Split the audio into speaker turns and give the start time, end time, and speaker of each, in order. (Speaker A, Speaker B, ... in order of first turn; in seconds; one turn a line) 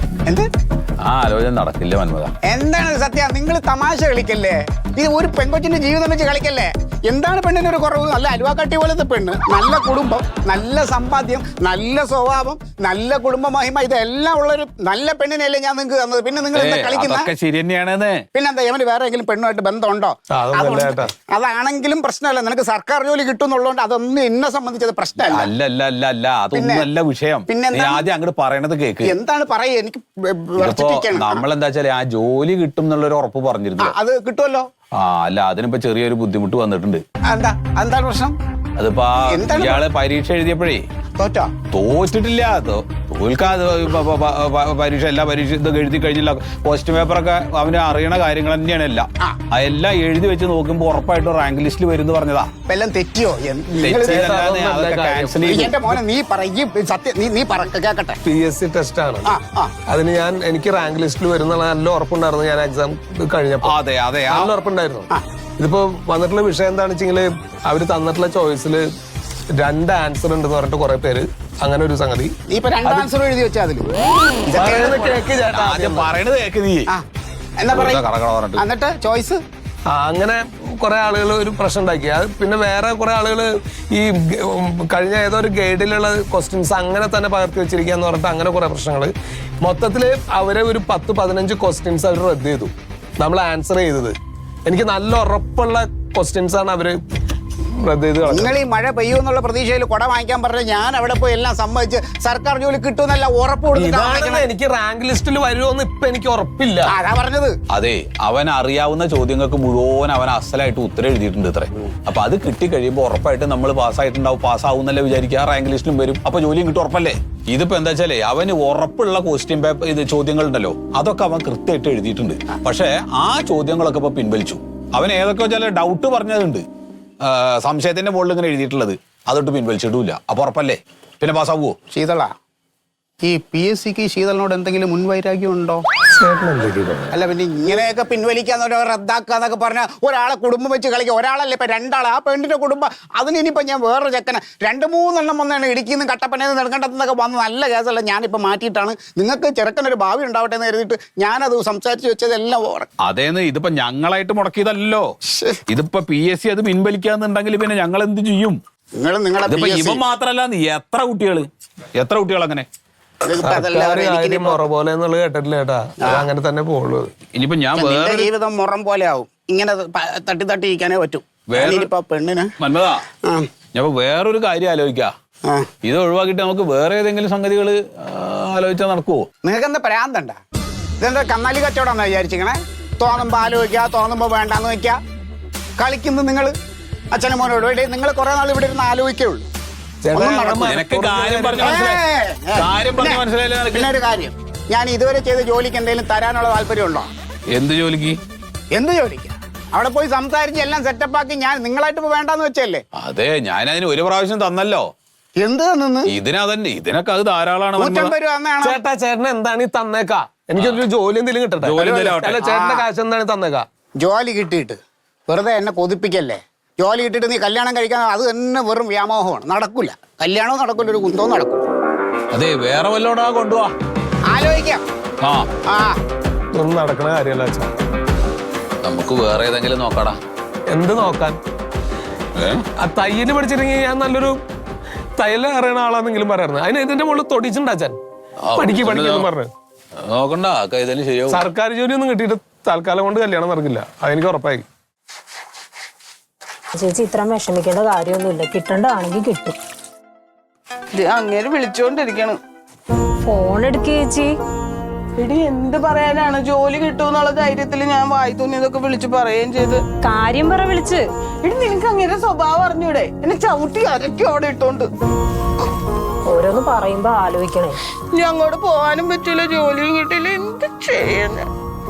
Speaker A: 1.0-2.3
Speaker B: 2.5-17.3
Speaker A: 16.5-18.2
Speaker B: 18.3-25.5
Speaker C: 20.3-21.1
Speaker A: 25.2-29.1
Speaker B: 26.5-26.9
Speaker B: 27.5-28.0
Speaker B: 29.0-31.4
Speaker A: 30.6-34.0
Speaker B: 33.8-34.7
Speaker A: 35.0-37.0
Speaker B: 37.3-38.4
Speaker A: 38.8-40.8
Speaker B: 39.3-39.9
Speaker B: 41.1-41.5
Speaker A: 41.7-52.5
Speaker B: 52.7-54.4
Speaker A: 53.8-55.9
Speaker C: 54.0-55.6
Speaker B: 55.5-58.2
Speaker C: 58.2-59.3
Speaker B: 59.2-59.7
Speaker C: 59.9-68.9
Speaker A: 63.6-64.5
Speaker C: 69.5-73.1
Speaker B: 72.5-73.9
Speaker C: 74.5-76.1
Speaker B: 74.5-75.2
Speaker A: 75.5-76.9
Speaker B: 77.6-78.0
Speaker A: 77.7-78.6
Speaker B: 78.6-79.4
Speaker C: 79.9-97.0
Speaker C: 97.8-98.5
Speaker B: 98.3-104.5
Speaker C: 103.7-107.0
Speaker B: 106.9-107.5
Speaker A: 107.7-126.6
Speaker A: 127.2-131.8
Speaker B: 131.9-132.3
Speaker B: 133.2-135.8
Speaker C: 136.1-137.2
Speaker B: 137.1-152.9
Speaker A: 153.0-155.1
Speaker A: 155.7-158.6
Speaker B: 159.0-160.0
Speaker A: 159.5-162.7
Speaker B: 163.2-164.7
Speaker C: 163.4-167.2
Speaker B: 166.0-166.3
Speaker A: 167.3-168.3
Speaker B: 167.8-172.5
Speaker A: 171.5-171.9
Speaker A: 172.6-173.0
Speaker A: 173.7-175.1
Speaker A: 175.8-179.3
Speaker B: 179.4-180.4
Speaker B: 181.0-185.0
Speaker B: 185.8-186.5
Speaker B: 187.1-189.5
Speaker C: 190.0-191.9
Speaker B: 190.1-190.7
Speaker A: 190.6-192.0
Speaker B: 191.6-193.2
Speaker A: 192.5-193.9
Speaker B: 193.7-197.1
Speaker A: 197.5-198.2
Speaker B: 198.7-202.8
Speaker A: 203.0-204.9
Speaker B: 205.4-206.1
Speaker A: 206.1-208.1
Speaker B: 207.8-208.8
Speaker C: 208.6-213.7
Speaker A: 211.6-212.4
Speaker B: 212.4-212.9
Speaker B: 214.0-221.7
Speaker A: 222.3-223.7
Speaker B: 224.3-224.8
Speaker A: 225.2-225.5
Speaker B: 225.7-226.0
Speaker C: 226.5-227.7
Speaker A: 228.8-230.2
Speaker C: 230.7-231.4
Speaker A: 232.3-232.6
Speaker C: 232.8-234.4
Speaker C: 235.2-238.0
Speaker A: 238.4-239.3
Speaker C: 238.6-239.5
Speaker A: 240.1-241.4
Speaker C: 241.3-244.7
Speaker D: 246.7-249.6
Speaker E: 250.9-252.4
Speaker D: 253.2-254.3
Speaker E: 255.2-259.9
Speaker D: 260.0-261.0
Speaker E: 261.4-264.9
Speaker D: 266.3-267.8
Speaker E: 268.1-271.5